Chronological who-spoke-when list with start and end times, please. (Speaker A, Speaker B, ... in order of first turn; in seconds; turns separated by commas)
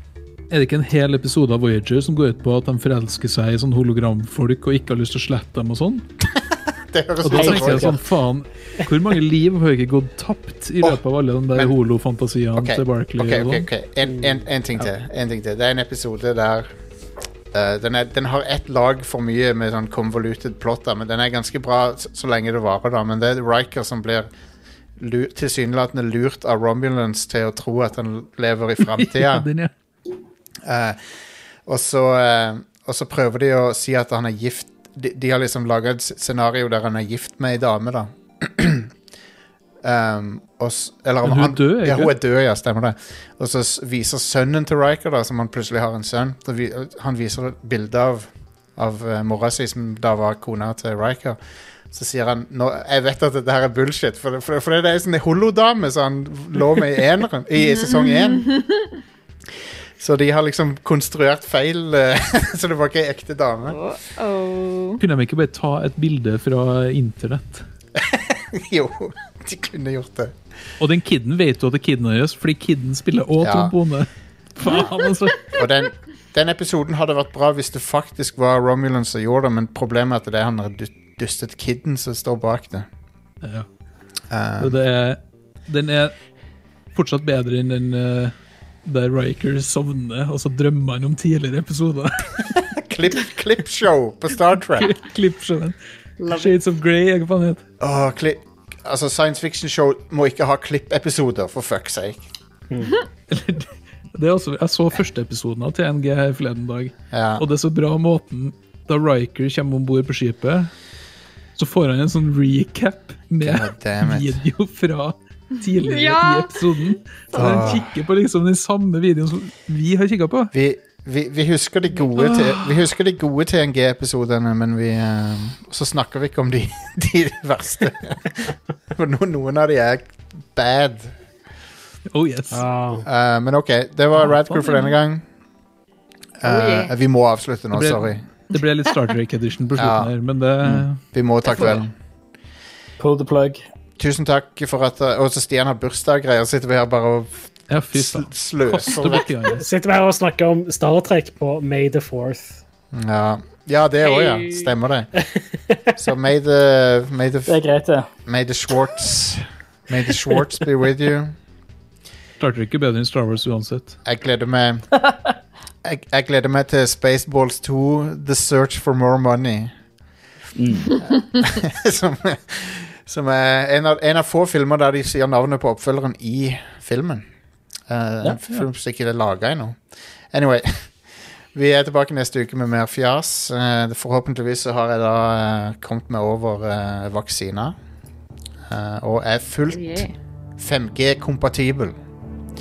Speaker A: 0.5-6.0, Speaker B: 6.2-8.0, Speaker A: 7.2-13.7, Speaker C: 7.3-7.7, Speaker B: 12.6-16.7, Speaker B: 17.5-24.3, Speaker B: 25.0-29.5, Speaker A: 28.9-29.7, Speaker B: 30.6-31.1, Speaker B: 31.6-38.9, Speaker B: 39.8-58.5, Speaker A: 41.2-42.1, Speaker B: 60.0-63.8, Speaker D: 63.7-65.0, Speaker A: 65.0-67.7, Speaker B: 68.0-70.3, Speaker A: 70.8-75.6, Speaker B: 73.4-73.7, Speaker B: 75.5-82.8, Speaker B: 84.3-84.8, Speaker A: 84.6-86.1, Speaker A: 86.9-88.3, Speaker A: 88.8-92.5, Speaker B: 92.5-94.9, Speaker A: 94.8-95.7, Speaker D: 96.2-96.6, Speaker A: 96.3-97.6, Speaker B: 97.8-102.2, Speaker A: 103.3-110.7, Speaker B: 107.1-107.5, Speaker A: 111.6-120.5, Speaker B: 113.4-114.4, Speaker D: 115.6-116.7, Speaker B: 117.3-118.0, Speaker B: 120.5-131.1, Speaker A: 122.2-122.8, Speaker A: 132.1-132.6, Speaker E: 132.5-133.1, Speaker B: 133.0-135.2, Speaker A: 134.2-134.6, Speaker B: 136.4-138.2, Speaker D: 136.4-136.9, Speaker A: 137.7-141.0, Speaker B: 139.8-140.1, Speaker B: 141.1-141.9, Speaker D: 141.5-141.8, Speaker C: 143.0-143.6, Speaker B: 144.0-149.3, Speaker A: 147.7-149.7, Speaker E: 149.5-152.6, Speaker B: 152.9-155.1, Speaker D: 154.0-154.7, Speaker E: 155.3-155.8, Speaker B: 155.9-157.6, Speaker C: 157.5-158.1, Speaker B: 158.2-161.3, Speaker A: 162.4-164.0, Speaker B: 164.0-164.9, Speaker B: 165.8-169.7, Speaker C: 170.6-171.0, Speaker B: 171.0-177.2, Speaker B: 177.9-180.9, Speaker C: 178.2-178.6, Speaker B: 181.5-187.7, Speaker B: 188.7-191.9, Speaker D: 189.7-190.1